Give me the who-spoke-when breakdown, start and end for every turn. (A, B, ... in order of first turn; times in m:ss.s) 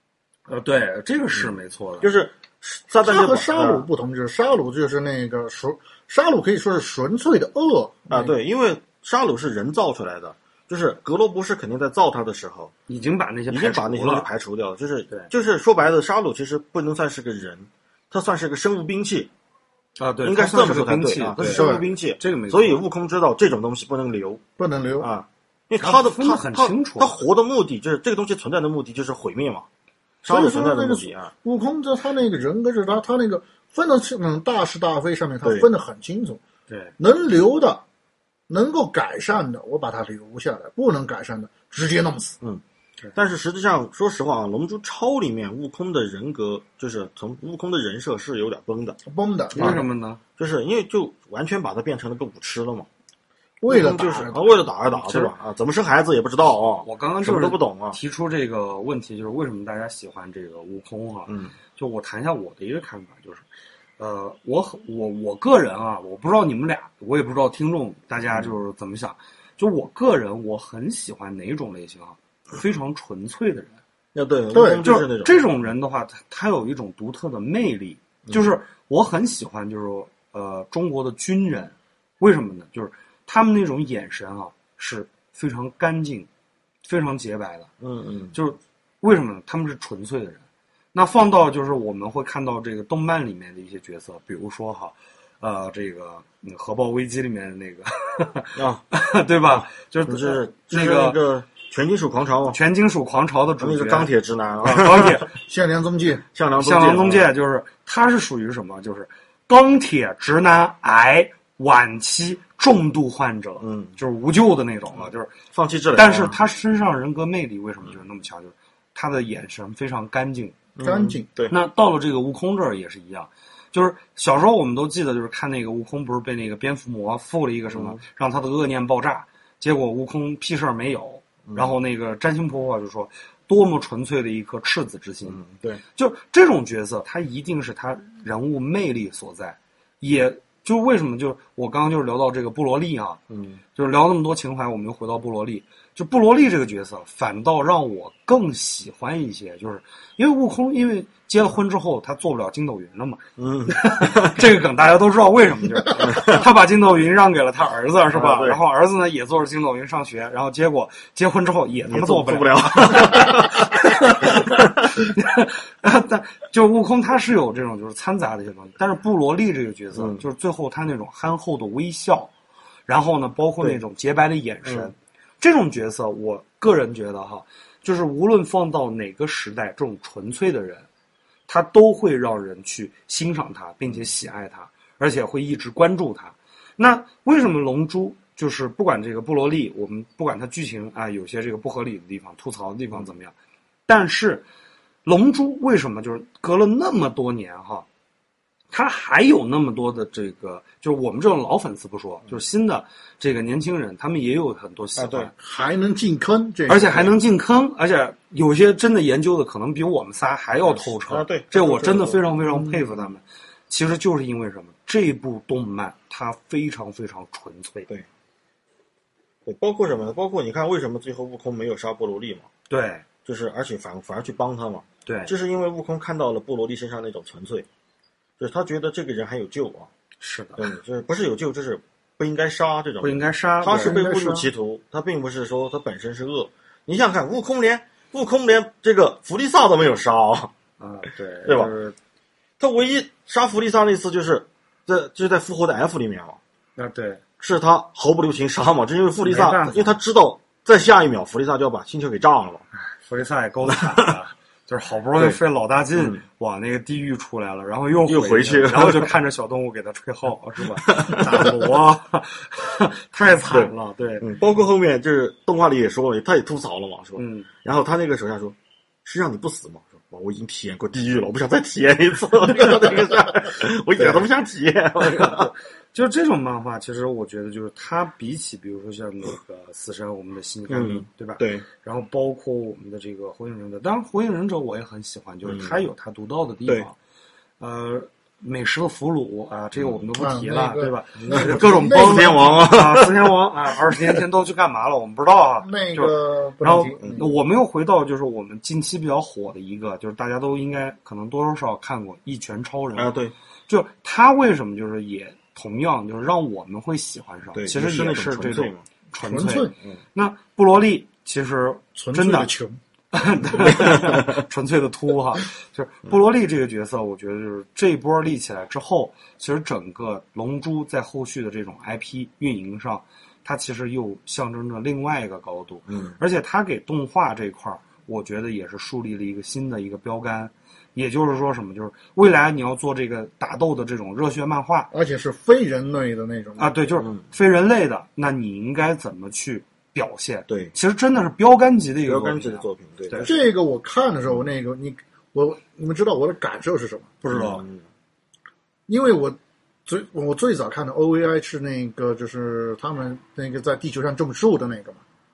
0:00.5-0:02.1 A
0:01.3-0:03.9 B
0:03.0-0:08.3 C
0:08.1-0:12.7 B
0:12.9-0:14.3 A
0:13.5-0:19.3 B
0:20.0-0:22.8 A
0:20.2-0:24.4 B
0:21.4-0:21.9 C
0:24.6-0:25.1 C
0:25.0-0:29.7 B
0:25.8-0:27.2 A
0:30.2-0:31.3 B
0:30.3-0:36.4 C
0:35.4-0:35.7 B
0:37.0-0:37.8 C
0:38.5-0:42.4 C
0:43.2-0:49.0 B
0:49.1-0:49.8 C
0:49.5-0:50.2 A
0:50.4-0:52.9 B
0:53.6-0:54.5 C
0:53.7-0:58.0 B
0:54.9-0:55.3 A
0:56.8-1:03.5 A
1:01.3-1:01.6 B
1:04.0-1:13.8 A
1:14.1-1:15.4 B
1:14.5-1:14.8 C
1:14.8-1:26.3 A
1:26.8-1:27.7 A
1:27.8-1:28.4 B
1:28.3-1:30.4 A
1:30.9-1:41.2 A
1:38.6-1:38.8 B
1:39.6-1:42.6 B
1:42.5-1:44.1 A
1:43.6-1:45.2 B
1:44.6-1:45.3 A
1:45.4-1:46.2 C
1:46.3-1:47.3 B
1:46.6-1:55.3 A
1:53.6-1:54.0 B
1:55.0-1:56.4 B
1:55.9-2:00.6 A
2:00.8-2:01.6 B
2:00.8-2:01.3 C
2:01.5-2:15.4 A
2:07.7-2:08.0 B
2:11.5-2:11.7 B
2:15.3-2:15.8 B
2:16.0-2:23.2 A
2:23.3-2:23.6 B
2:23.8-2:52.3 A
2:33.4-2:34.5 B
2:36.0-2:36.5 B
2:38.1-2:38.6 B
2:41.9-2:43.8 B
2:44.4-2:44.9 B
2:50.0-2:50.2 B
2:52.9-3:00.9 A
2:54.6-2:54.9 B
3:01.5-3:13.3 A
3:13.9-3:14.4 A
3:15.0-3:17.9 A
3:18.7-3:25.3 A
3:25.0-3:25.3 B
3:25.4-3:27.1 C
3:26.7-3:37.9 A
3:30.6-3:32.2 B
3:39.5-3:42.5 B
3:42.7-3:43.0 A
3:43.2-3:47.7 B
3:45.1-3:45.3 A
3:48.4-3:49.9 B
3:50.2-3:50.7 A
3:50.6-4:00.5 B
3:53.0-3:54.0 A
3:53.7-3:54.5 C
4:00.8-4:02.0 A
4:01.4-4:01.7 B
4:02.6-4:06.4 B
4:06.8-4:07.2 A
4:07.4-4:12.6 B
4:09.2-4:10.0 A
4:13.1-4:24.3 A
4:13.7-4:14.2 B
4:16.0-4:16.2 B
4:18.1-4:19.1 B
4:20.8-4:21.6 B
4:23.4-4:35.5 B
4:27.2-4:27.5 A
4:35.0-4:47.0 A
4:40.7-4:41.6 B
4:45.4-4:45.8 B
4:47.6-5:03.1 A
4:50.2-4:52.5 C
4:51.2-4:53.3 B
4:53.9-4:54.2 B
4:55.6-4:57.2 C
5:03.0-5:03.3 B
5:03.7-5:12.5 A
5:07.6-5:08.8 B
5:09.2-5:09.7 C
5:12.0-5:12.8 C
5:13.1-5:34.9 A
5:13.5-5:14.4 B
5:25.9-5:26.2 B
5:34.9-5:36.7 C
5:36.6-5:43.3 A
5:40.5-5:40.7 B
5:42.1-5:43.4 B
5:43.2-5:47.1 C
5:47.2-5:47.6 A
5:47.3-5:47.8 B
5:48.9-5:55.0 C